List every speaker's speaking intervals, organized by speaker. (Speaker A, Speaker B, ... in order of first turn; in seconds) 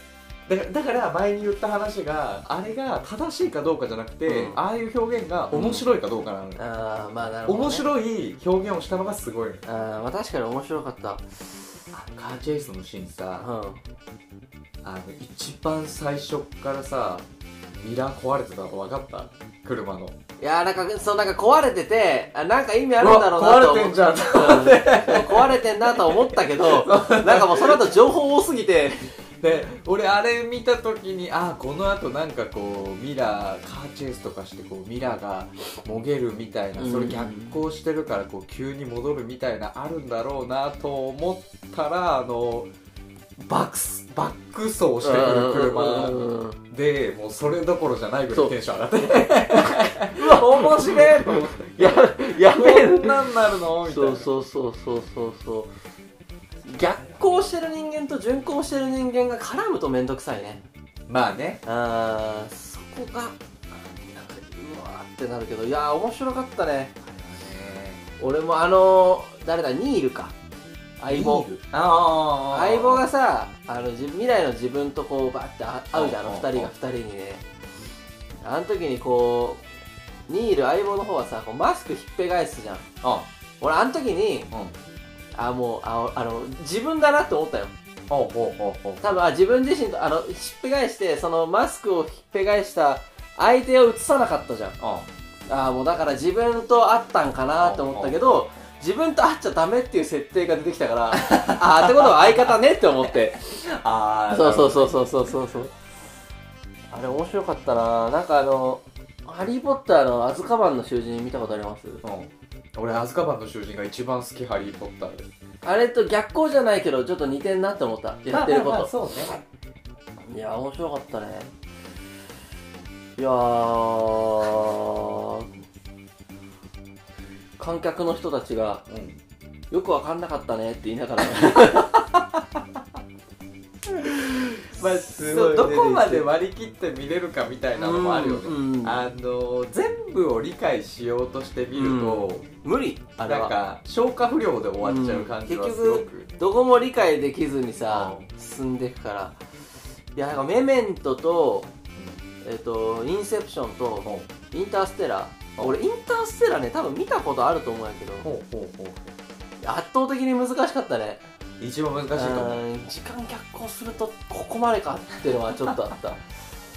Speaker A: 0.5-6.6, 7.5-9.6, 11.9-13.5, 14.8-17.2, 17.8-20.2, 23.0-28.0, 29.4-42.7, 43.4-54.3, 61.1-61.6, 67.0-68.0, 71.1-73.0, 75.9-76.7, 83.0-83.3, 84.5-84.8, 88.1-89.1, 94.8-95.1, 97.6-98.2, 101.2-102.3, 103.5-105.1, 112.0-115.3, 118.3-119.3, 128.9-129.2, 131.4-131.9, 133.9-142.4, 143.2-146.3, 147.9-148.3, 152.0-152.2, 158.2-159.1, 161.6-162.6
Speaker B: 4.3-4.6, 5.5-5.8, 6.6-7.9, 9.6-11.4, 13.4-13.8, 20.4-29.1, 36.8-37.6, 45.0-46.6, 49.2-53.3, 53.8-55.7, 56.6-60.6, 61.6-66.9, 68.2-70.3, 71.0-71.6, 72.5-77.4, 78.4-79.6, 80.3-82.9, 83.6-84.5, 85.3-87.7, 89.0-94.8, 95.5-103.5, 104.3-105.7, 106.9-112.0, 115.6-119.3, 120.3-121.5, 123.2-125.5, 127.6-128.8, 129.7-132.0, 135.0-136.3, 137.8-139.0, 141.8-143.6, 144.8-149.4, 150.1-151.7, 152.4-158.3, 159.6-161.2, 162.1-166.2